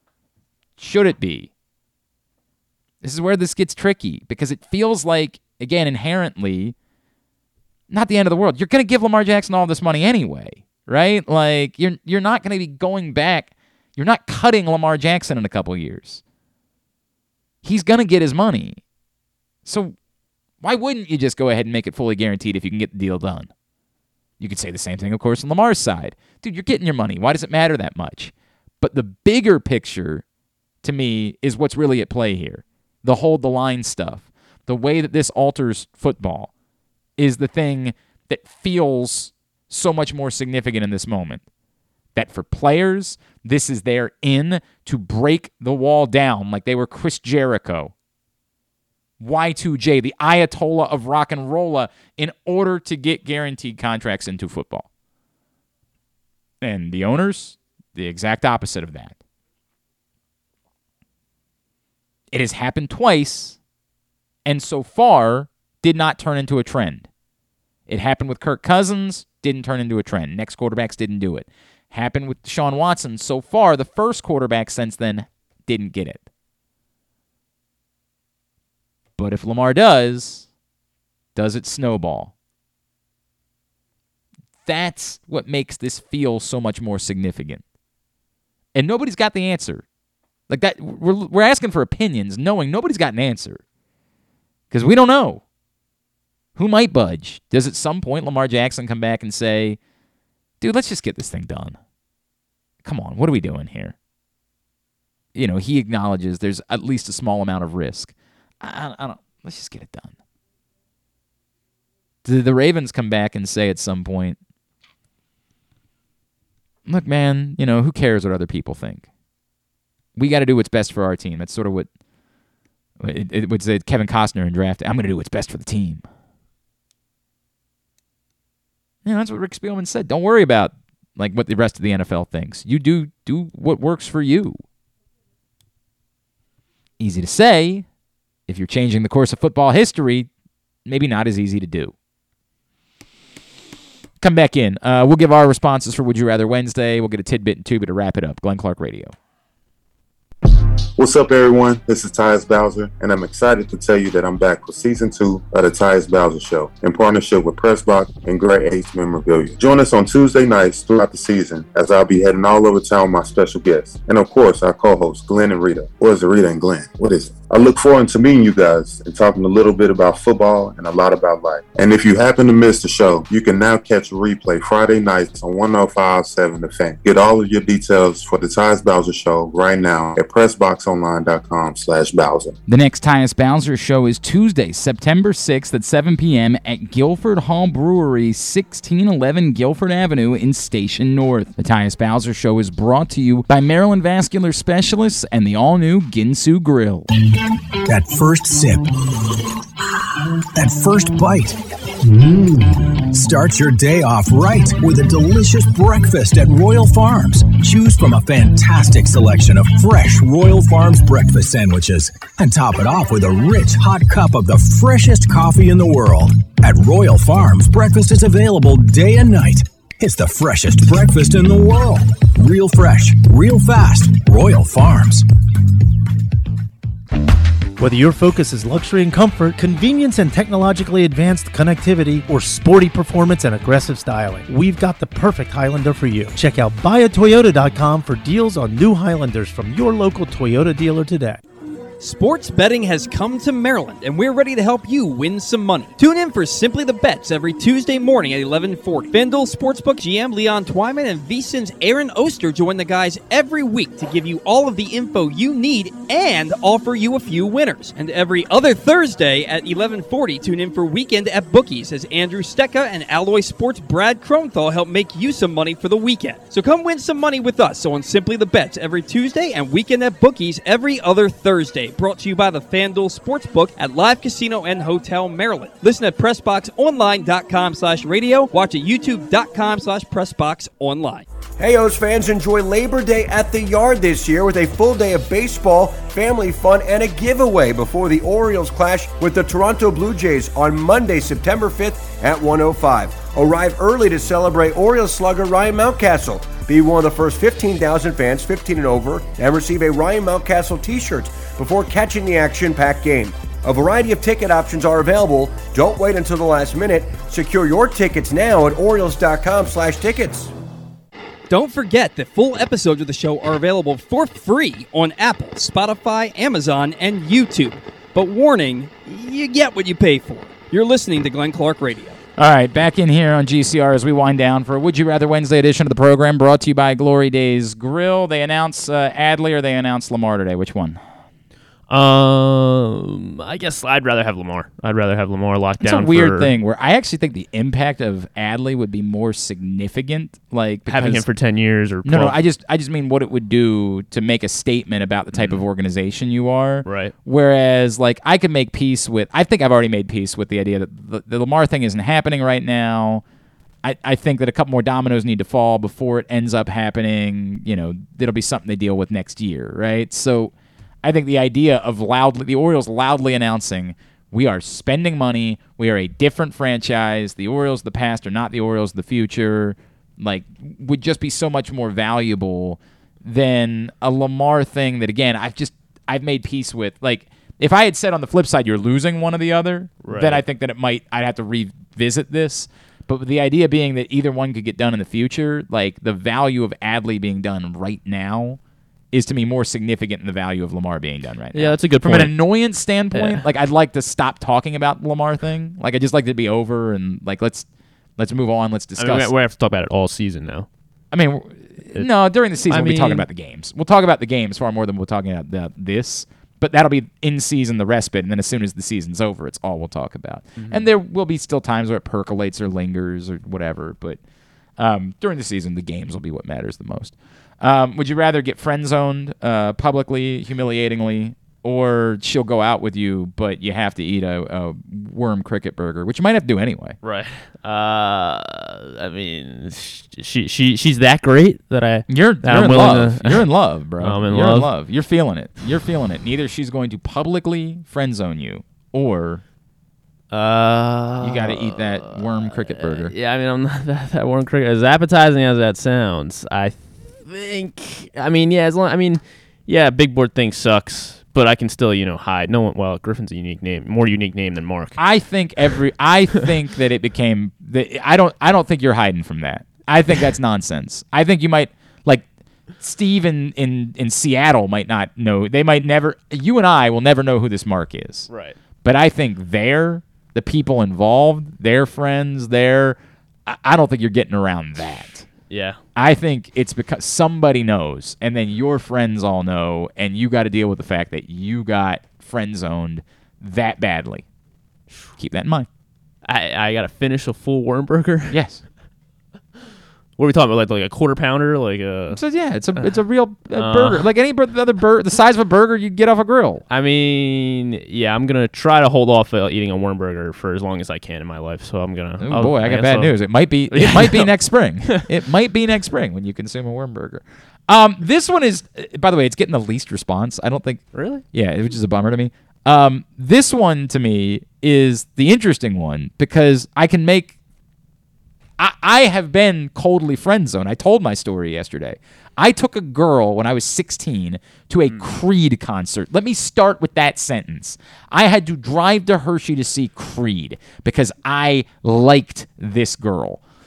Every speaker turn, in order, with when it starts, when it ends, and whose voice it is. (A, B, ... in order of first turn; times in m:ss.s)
0:00.8-0:01.5 A
0:03.0-0:06.7 A
0:07.9-0:16.2 A
0:17.6-0:18.8 A
0:19.6-0:19.9 A
0:20.6-0:23.5 A
0:24.4-0:30.2 A
0:30.8-0:36.5 A
0:37.2-0:41.4 A
0:42.1-0:47.9 A
0:49.2-0:54.9 A
0:56.6-0:59.2 A
1:02.3-1:03.6 A
1:04.4-1:07.1 A
1:07.9-1:16.2 A
1:19.2-1:20.5 A
1:21.4-1:22.3 A
1:24.6-1:27.6 A
1:28.7-1:29.8 A
1:30.5-1:33.6 A
1:34.7-1:35.4 A
1:36.6-1:39.8 A
1:40.6-1:41.8 A
1:42.8-1:43.9 A
1:45.3-1:50.1 A
1:52.2-1:54.4 A
1:56.9-1:59.0 A
2:00.2-2:01.9 A
2:03.0-2:06.0 A
2:09.0-2:14.6 A
2:17.0-2:17.9 A
2:18.5-2:20.3 A
2:20.8-2:21.9 A
2:24.2-2:29.1 A
2:31.0-3:02.6 B
3:02.7-3:17.1 A
3:17.8-3:18.9 C
3:20.5-3:21.6 C
3:23.0-3:45.2 C
3:47.8-4:01.4 D
4:02.0-4:41.3 E
4:41.6-5:10.5 F
5:11.5-5:22.2 E
5:22.4-5:31.0 A
5:31.9-5:36.5 G
5:35.8-5:41.3 A
5:40.9-5:42.4 G
5:42.0-5:53.2 A
5:45.3-5:45.6 G
5:46.8-5:47.1 G
5:53.8-6:00.5 A
6:01.0-6:28.6 A
6:20.0-6:20.4 G
6:29.1-6:39.3 A
6:31.5-6:32.4 G
6:33.1-6:33.4 G
6:39.0-6:40.7 G
6:41.1-6:54.2 A
6:41.9-6:43.2 G
6:50.6-6:50.9 G
6:54.8-7:07.0 A
7:07.0-7:14.7 G
7:12.1-7:19.4 A
7:20.3-7:35.0 G
7:21.2-7:23.1 A
7:35.0-7:42.2 A
7:42.8-7:48.3 A
7:48.3-7:48.6 G
7:48.8-7:55.3 A
7:55.5-7:55.8 G
7:55.9-8:04.2 A
8:05.1-8:05.7 A
8:06.2-8:08.4 G
8:08.3-8:08.6 A
8:10.2-8:12.2 G
8:12.1-8:16.6 A
8:12.7-8:13.0 G
8:13.5-8:14.1 G
8:16.7-8:25.0 G
8:22.2-8:37.3 A
8:30.9-8:31.2 G
8:38.6-8:53.4 A
8:44.8-8:45.2 G